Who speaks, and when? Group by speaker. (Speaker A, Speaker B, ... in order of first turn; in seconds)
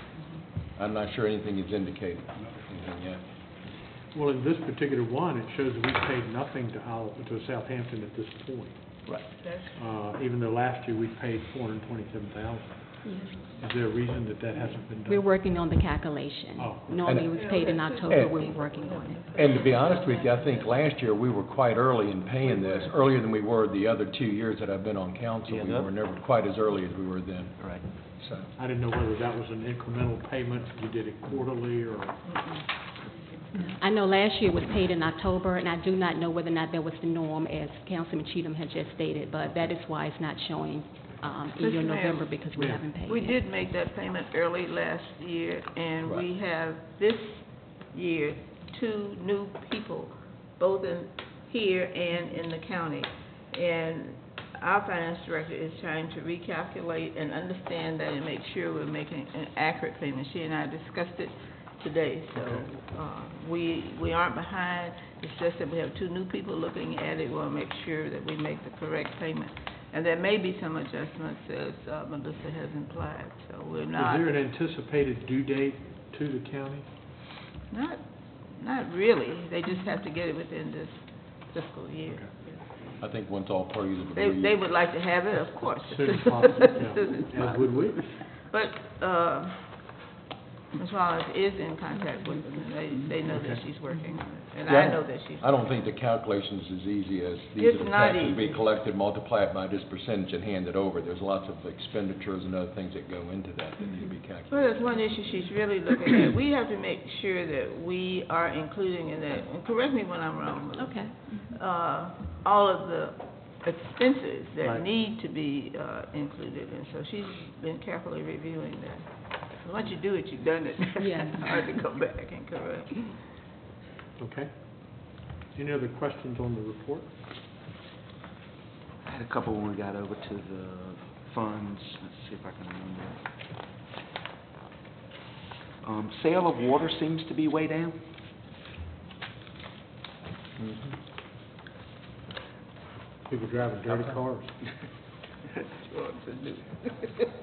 Speaker A: 0.7-3.2, 17.0-17.4, 18.1-18.6, 19.3-28.5, 83.0-84.8, 94.7-104.8
Speaker B: 4.1-9.1, 9.7-15.3, 16.6-17.0, 28.6-32.2, 42.5-42.8, 62.3-62.7, 73.9-76.9, 85.8-88.2, 93.3-93.6, 114.6-114.9, 124.2-127.1, 143.2-144.6
Speaker C: 9.1-9.3, 25.5-25.9, 27.6-27.8, 129.0-133.3, 135.8-138.0
Speaker D: 9.4-9.7, 17.3-20.8, 22.4-22.9, 32.2-32.7, 41.6-42.4, 43.0-74.3, 77.7-82.6, 84.1-89.9, 90.7-95.6, 97.6-98.6, 104.5-123.2, 145.6-147.2
Speaker E: 13.0-13.3, 15.1-19.2, 33.5-43.4, 110.8-111.6, 121.0-121.4